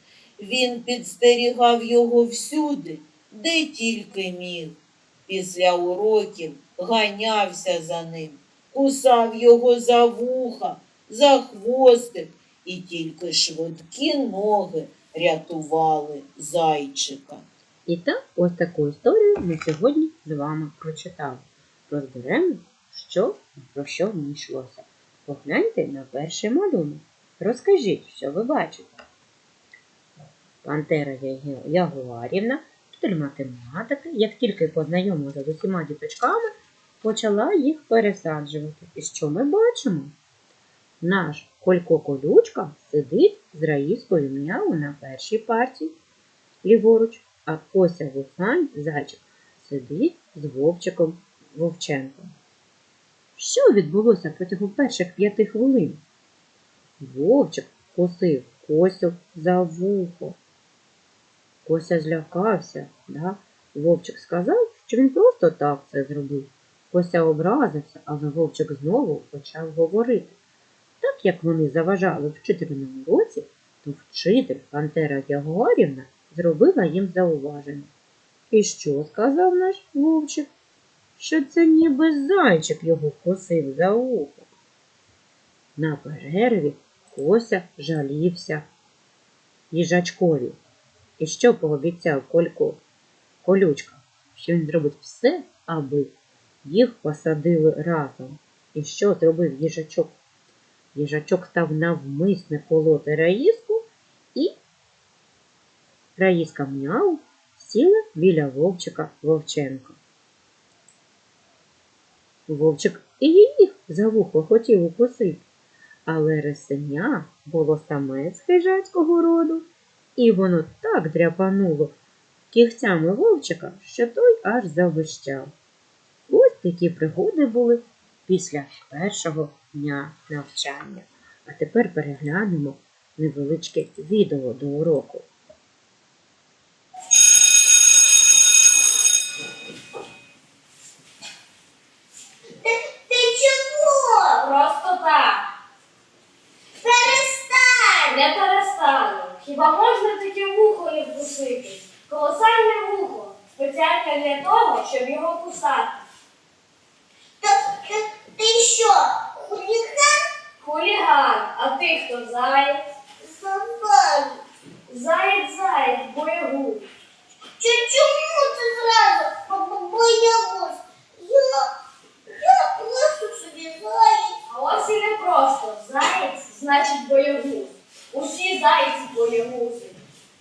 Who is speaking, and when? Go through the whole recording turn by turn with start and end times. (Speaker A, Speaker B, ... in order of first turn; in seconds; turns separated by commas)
Speaker A: 0.4-17.4, Speaker B: 17.9-28.9, Speaker B: 30.6-36.4, Speaker B: 37.0-40.1, Speaker B: 41.0-45.9, Speaker B: 46.6-52.3, Speaker B: 53.4-56.0, Speaker B: 57.0-60.4, Speaker B: 61.6-70.3, Speaker B: 71.0-77.9, Speaker B: 78.5-80.5, Speaker B: 81.2-84.5, Speaker B: 85.8-88.6, Speaker B: 89.7-90.6, Speaker B: 91.2-92.8, Speaker B: 93.4-96.1, Speaker B: 96.6-100.2, Speaker B: 100.9-103.8, Speaker B: 106.2-110.0, Speaker B: 112.5-115.4, Speaker B: 116.0-119.6, Speaker B: 120.2-121.9, Speaker B: 122.5-125.5, Speaker B: 126.3-135.3, Speaker C: 142.6-144.4, Speaker D: 144.4-145.4, Speaker C: 146.8-148.0, Speaker D: 148.0-155.9, Speaker C: 157.4-160.2, Speaker D: 160.6-162.8, Speaker C: 163.2-164.4, Speaker D: 164.9-166.9, Speaker C: 167.6-171.7, Speaker C: 172.4-174.4, Speaker D: 174.5-180.0